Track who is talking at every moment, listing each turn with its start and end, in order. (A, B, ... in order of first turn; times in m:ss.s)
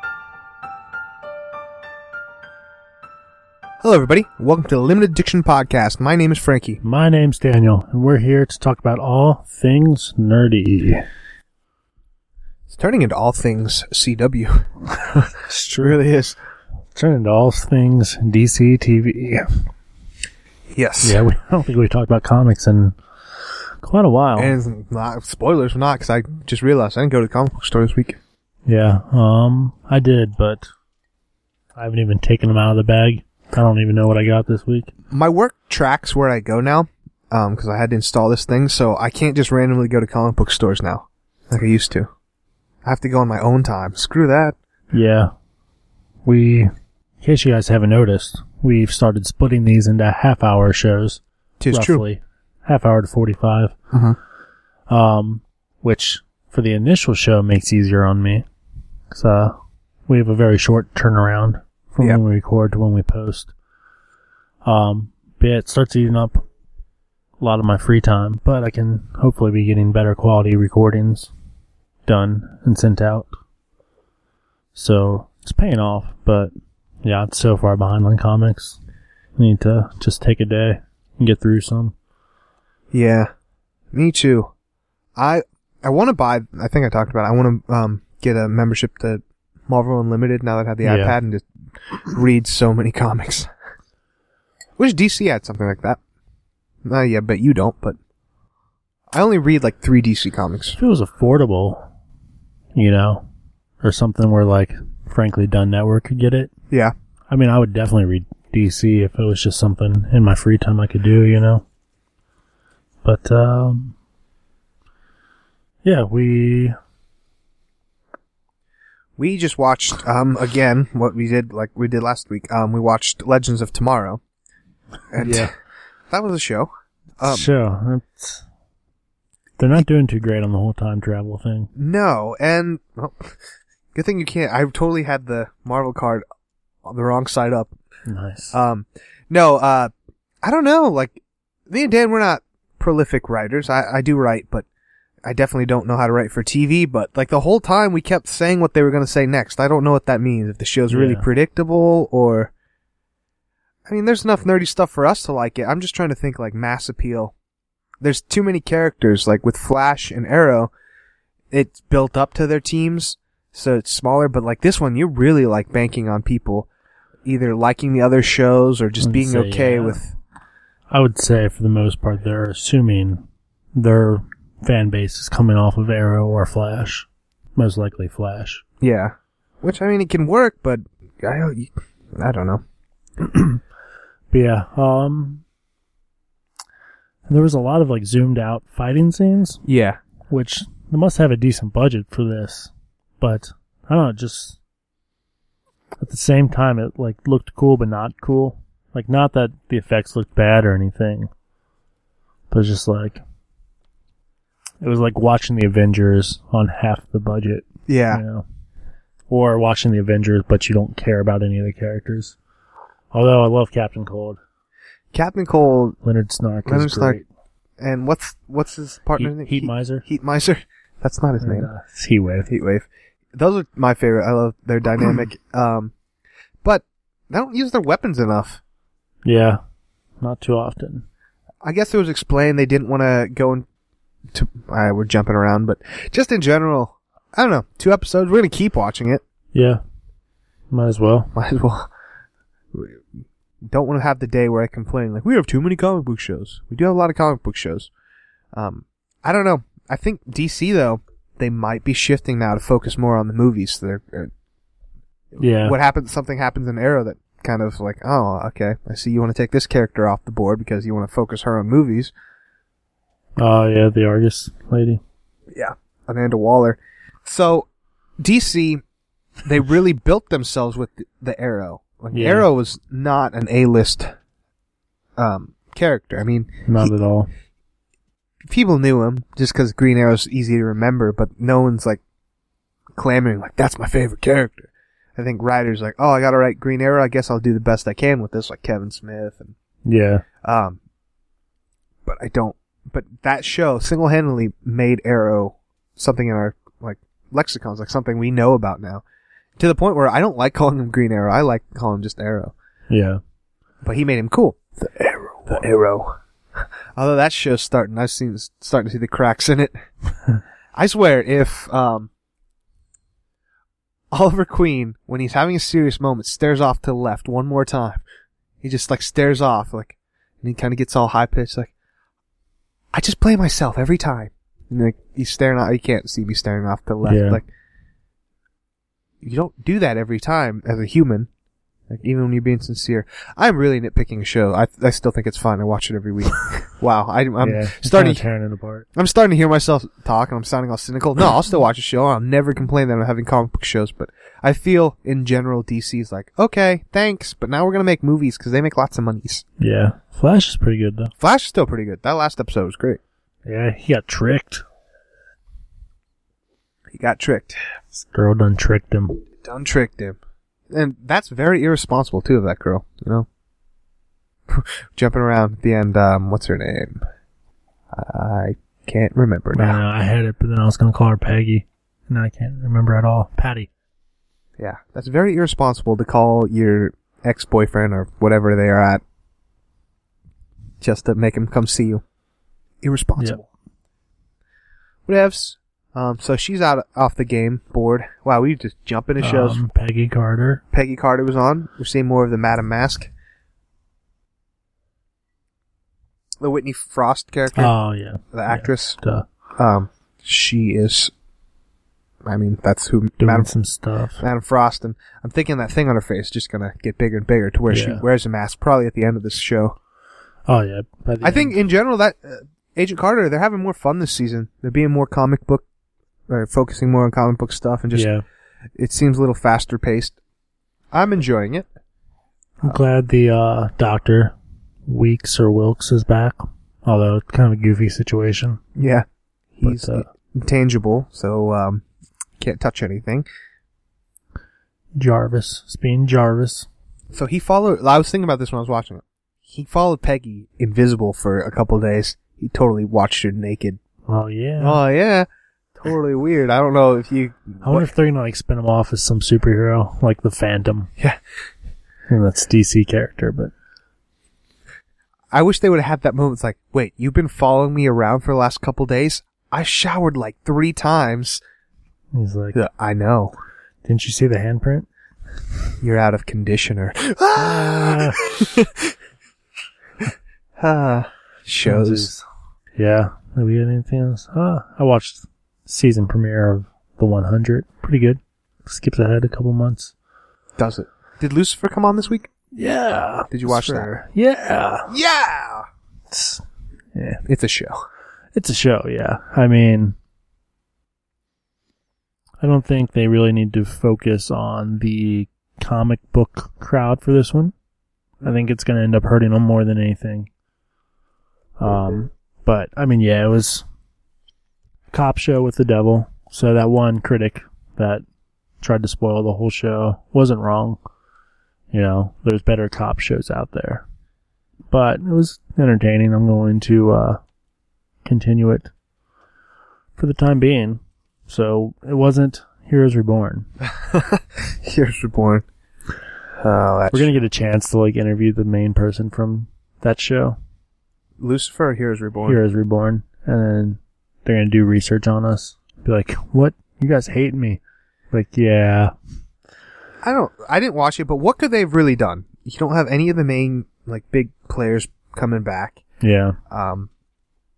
0:03.8-0:06.8 A
0:06.8-0:11.0 B
0:12.7-0:16.4 A
0:15.4-0:16.0 B
0:17.0-0:19.5 B
0:20.7-0:21.2 A
0:21.0-0:23.0 B
0:23.8-0:24.5 B
0:24.4-0:28.2 A
0:28.7-0:30.7 B
0:31.8-0:34.9 B
0:35.1-0:42.1 A
0:42.8-0:44.6 A
0:44.9-0:45.3 B
0:46.2-0:53.8 B
0:51.6-0:52.0 A
0:53.9-0:54.2 A
0:54.9-0:58.4 B
0:59.1-0:59.6 B
1:00.1-1:03.5 B
1:04.6-1:06.4 B
1:07.4-1:11.3 B
1:12.1-1:13.3 B
1:14.8-1:16.5 B
1:17.0-1:18.8 B
1:19.4-1:22.0 B
1:22.9-1:23.3 A
1:23.9-1:24.5 A
1:25.2-1:31.4 A
1:30.8-1:31.2 B
1:32.1-1:33.5 A
1:34.8-1:36.0 A
1:36.8-1:38.0 A
1:39.1-1:40.8 A
1:40.8-1:41.9 B
1:42.8-1:43.2 B
1:43.8-1:46.5 B
1:47.3-1:51.6 B
1:53.0-1:54.0 B
1:55.8-1:56.8 B
1:59.2-2:04.2 A
2:05.1-2:05.5 A
2:05.2-2:05.5 B
2:06.1-2:07.5 A
2:07.2-2:08.4 B
2:09.6-2:11.7 B
2:11.8-2:13.4 A
2:13.9-2:16.2 A
2:16.8-2:17.7 A
2:18.1-2:18.6 B
2:18.5-2:19.9 A
2:20.4-2:24.7 A
2:25.2-2:32.5 A
2:30.9-2:31.3 B
2:33.9-2:37.3 A
2:38.0-2:40.7 A
2:41.5-2:46.7 A
2:47.2-2:50.1 A
2:49.0-2:50.0 B
2:50.9-2:53.2 B
2:53.8-2:58.6 B
2:58.8-3:02.6 A
3:03.2-3:03.6 B
3:04.3-3:05.4 B
3:07.3-3:09.6 B
3:09.6-3:10.0 A
3:10.3-3:14.6 B
3:16.0-3:21.3 B
3:22.5-3:23.2 B
3:24.8-3:28.4 B
3:27.9-3:28.2 A
3:29.3-3:32.4 B
3:33.1-3:34.4 B
3:35.1-3:36.0 A
3:36.0-3:37.3 B
3:36.7-3:37.2 A
3:37.8-3:41.7 A
3:39.2-3:40.0 B
3:41.4-3:42.5 B
3:42.5-3:45.9 A
3:46.6-3:48.6 A
3:49.2-3:49.6 B
3:50.2-3:51.0 B
3:51.6-3:53.7 A
3:54.3-3:59.2 A
3:59.5-3:59.8 B
4:00.7-4:01.3 B
4:01.4-4:01.9 A
4:02.7-4:03.0 A
4:03.7-4:07.9 A
4:08.5-4:14.3 A
4:15.3-4:22.1 A
4:15.4-4:15.8 B
4:23.4-4:25.0 B
4:25.5-4:27.7 A
4:28.2-4:28.8 A
4:29.4-4:34.1 A
4:32.1-4:32.5 B
4:35.2-4:36.9 A
4:36.6-4:37.3 B
4:38.5-4:42.0 A
4:43.0-4:49.6 A
4:49.8-4:50.2 B
4:50.4-4:50.8 A
4:52.1-4:59.0 A
4:59.6-5:02.5 A
5:02.9-5:03.2 B
5:03.8-5:09.8 A
5:10.8-5:12.1 A
5:14.1-5:18.0 A
5:18.6-5:21.7 A
5:22.9-5:27.5 A
5:27.0-5:27.4 B
5:29.2-5:31.3 A
5:31.9-5:38.2 A
5:37.4-5:38.9 B
5:39.0-5:49.4 A
5:49.6-5:51.1 B
5:51.2-5:53.0 A
5:53.4-5:54.6 B
5:56.9-5:57.6 A
5:58.0-5:59.2 B
5:59.4-6:00.2 A
6:00.7-6:03.3 A
6:04.5-6:07.0 A
6:07.9-6:09.8 A
6:09.5-6:13.7 B
6:14.6-6:19.0 A
6:20.8-6:22.0 A
6:22.8-6:23.4 A
6:25.1-6:29.6 A
6:29.2-6:30.6 B
6:30.7-6:33.1 A
6:36.4-6:37.8 A
6:37.5-6:39.3 B
6:38.3-6:39.0 A
6:39.6-6:41.1 A
6:42.2-6:43.5 A
6:43.2-6:44.2 B
6:44.2-6:49.8 A
6:47.7-6:48.0 B
6:50.5-6:51.6 B
6:51.2-6:55.6 A
6:56.3-6:58.1 A
6:57.9-6:58.2 B
6:58.8-7:00.2 A
7:00.9-7:01.7 A
7:02.6-7:04.4 B
7:04.9-7:08.6 B
7:08.8-7:11.8 A
7:09.6-7:10.1 B
7:12.4-7:13.3 A
7:15.0-7:16.7 B
7:17.1-7:23.8 A
7:24.1-7:24.8 B
7:24.6-7:25.3 A
7:25.8-7:27.9 A
7:27.6-7:30.9 B
7:32.1-7:33.5 B
7:35.3-7:41.4 A
7:42.1-7:42.6 B
7:42.6-7:43.4 A
7:43.8-7:44.9 B
7:45.8-7:48.9 A
7:47.4-7:48.2 B
7:50.0-7:52.1 A
7:51.6-7:52.2 B
7:52.8-7:59.9 B
8:00.6-8:02.3 A
8:02.6-8:04.9 B
8:03.3-8:03.9 A
8:04.9-8:05.7 A
8:06.1-8:06.4 B
8:07.0-8:07.2 B
8:07.3-8:07.8 A
8:08.4-8:10.0 B
8:12.4-8:17.5 B
8:18.2-8:20.3 B
8:21.6-8:23.6 B
8:24.9-8:28.0 B
8:28.6-8:30.8 B
8:31.7-8:33.8 B
8:34.7-8:37.2 B
8:38.0-8:38.7 B
8:40.0-8:43.5 B
8:43.9-8:45.5 A
8:46.4-8:47.2 A
8:46.9-8:50.4 B
8:51.2-8:52.4 A
8:52.2-8:57.6 B
8:58.1-8:58.9 B
9:00.0-9:05.8 A
9:06.0-9:06.4 B
9:06.5-9:06.9 A